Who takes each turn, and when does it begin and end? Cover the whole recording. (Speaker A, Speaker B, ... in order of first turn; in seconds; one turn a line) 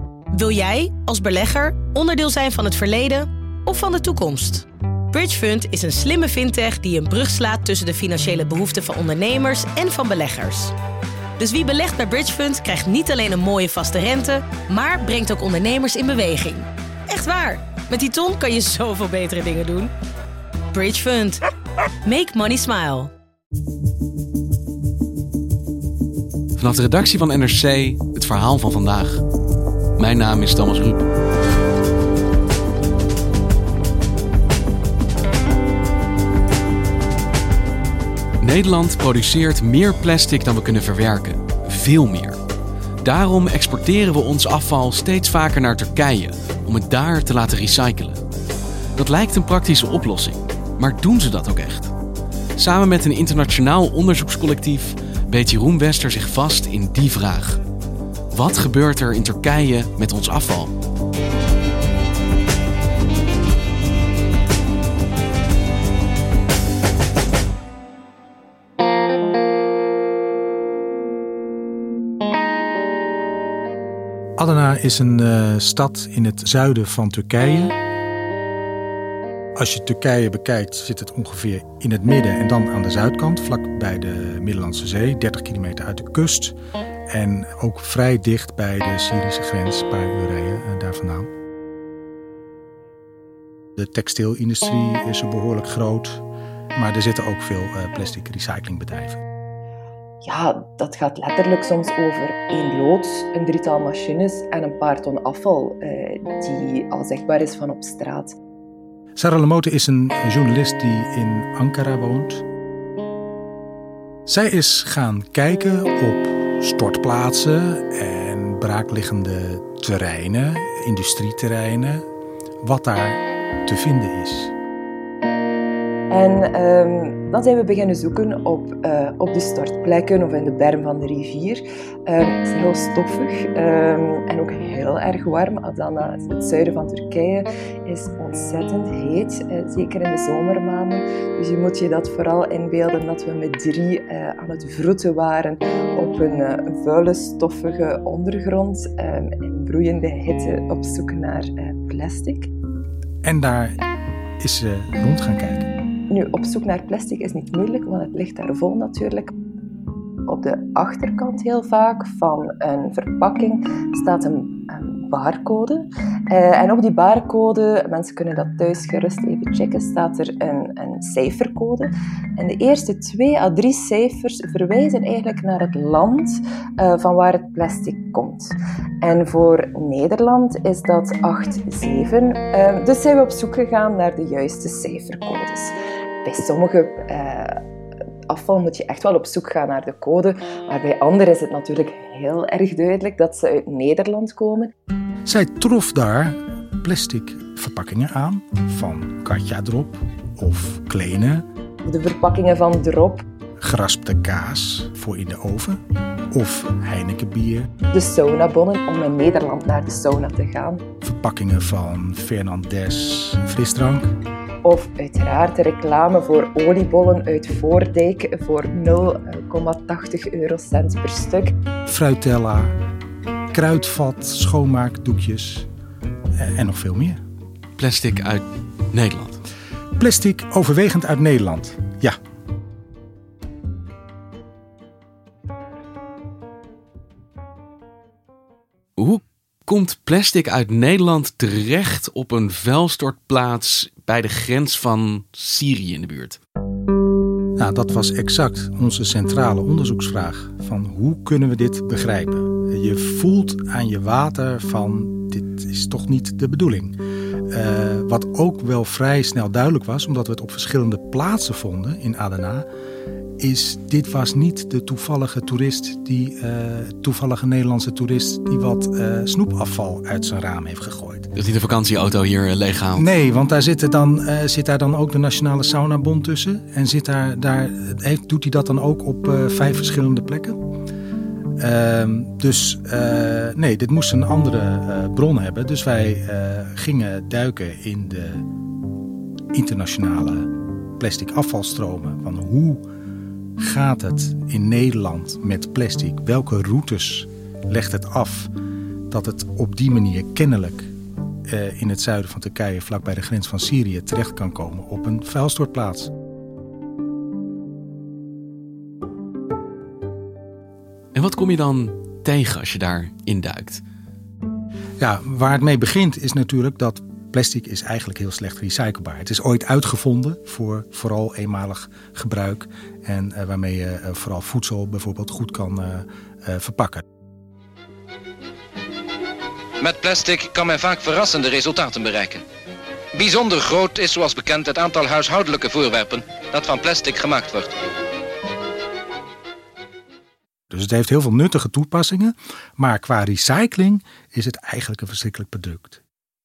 Speaker A: 0.3-10.7
Speaker A: 11.4-19.9
Speaker A: 20.7-21.4
Speaker A: 22.0-23.1
Speaker B: 26.6-29.2
Speaker B: 30.0-31.0
Speaker B: 38.4-42.4
Speaker B: 43.0-48.2
Speaker B: 49.0-51.9
Speaker B: 52.6-57.6
Speaker B: 58.3-60.7
Speaker C: 74.4-77.7
Speaker C: 79.5-86.5
Speaker C: 87.1-91.3
Speaker C: 93.8-96.2
Speaker C: 96.7-99.2
Speaker D: 100.2-108.3
Speaker C: 109.2-112.4
Speaker C: 114.2-122.0
Speaker C: 122.6-124.5
Speaker D: 126.1-152.5
Speaker C: 153.2-153.8
Speaker C: 154.4-155.7
Speaker D: 156.1-159.3
Speaker D: 160.3-187.6
Speaker D: 188.3-194.7
Speaker C: 195.2-201.4
Speaker D: 201.8-203.2
Speaker C: 203.6-205.8
Speaker C: 206.3-207.7
Speaker D: 207.9-210.8
Speaker C: 211.0-214.1
Speaker D: 214.6-221.5
Speaker C: 221.8-222.7
Speaker C: 223.5-225.7
Speaker C: 226.4-227.2
Speaker B: 227.8-229.4
Speaker C: 230.0-232.2
Speaker B: 239.0-246.4
Speaker C: 247.6-257.0
Speaker C: 257.5-262.6
Speaker C: 263.4-271.3
Speaker B: 271.4-273.1
Speaker C: 272.9-280.6
Speaker C: 281.6-288.5
Speaker C: 289.5-292.9
Speaker C: 293.6-298.5
Speaker C: 299.1-300.9
Speaker C: 301.5-306.1
Speaker B: 311.1-313.8
Speaker C: 315.0-327.0
Speaker E: 329.8-332.4
Speaker E: 333.2-337.7
Speaker C: 340.7-346.0